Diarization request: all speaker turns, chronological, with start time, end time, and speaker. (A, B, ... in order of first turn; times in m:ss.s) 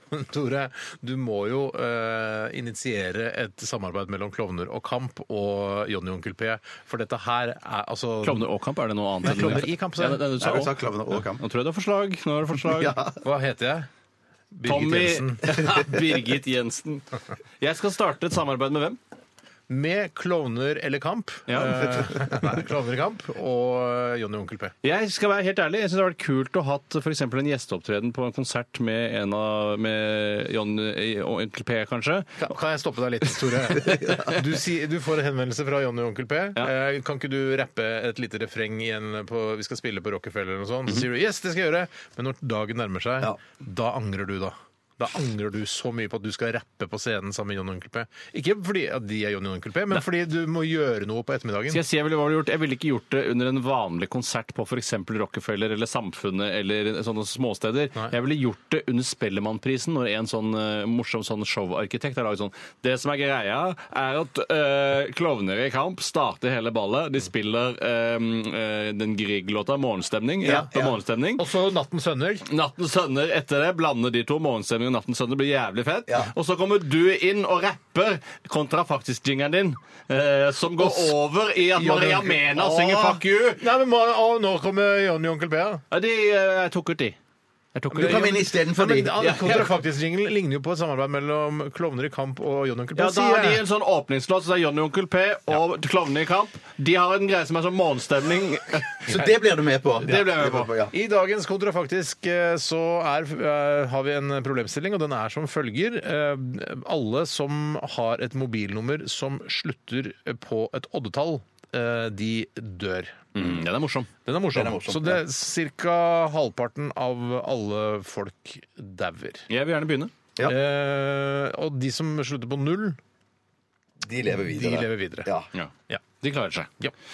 0:00.1-0:08.5 A
0:08.2-0:13.0 B
0:09.2-0:10.3 A
0:10.4-0:11.4 C
0:12.6-0:13.2 C
0:13.2-0:13.9 A
0:14.5-0:15.6 A
0:14.6-0:17.1 B
0:17.6-0:19.0 B
0:19.7-0:24.7 A
0:21.5-0:22.0 B
0:24.8-0:32.5 B
0:32.4-0:51.8 A
0:33.9-0:34.3 C
0:51.7-1:11.5 B
1:10.4-1:11.0 C
1:11.4-1:12.5 A
1:12.5-1:23.6 B
1:16.1-1:16.3 C
1:20.8-1:21.2 A
1:21.7-1:25.8 A
1:25.9-1:27.2 B
1:27.8-1:28.5 B
1:27.9-1:33.6 A
1:28.0-1:29.6 C
1:29.2-1:29.7 B
1:33.0-1:39.2 B
1:39.1-1:40.9 C
1:40.0-1:40.7 B
1:40.9-1:53.3 A
1:53.3-1:54.1 B
1:54.2-1:59.5 A
1:54.5-1:55.2 C
1:59.5-2:00.1 B
2:00.4-2:03.0 A
2:04.0-2:05.5 C
2:04.3-2:05.3 A
2:05.5-2:06.7 B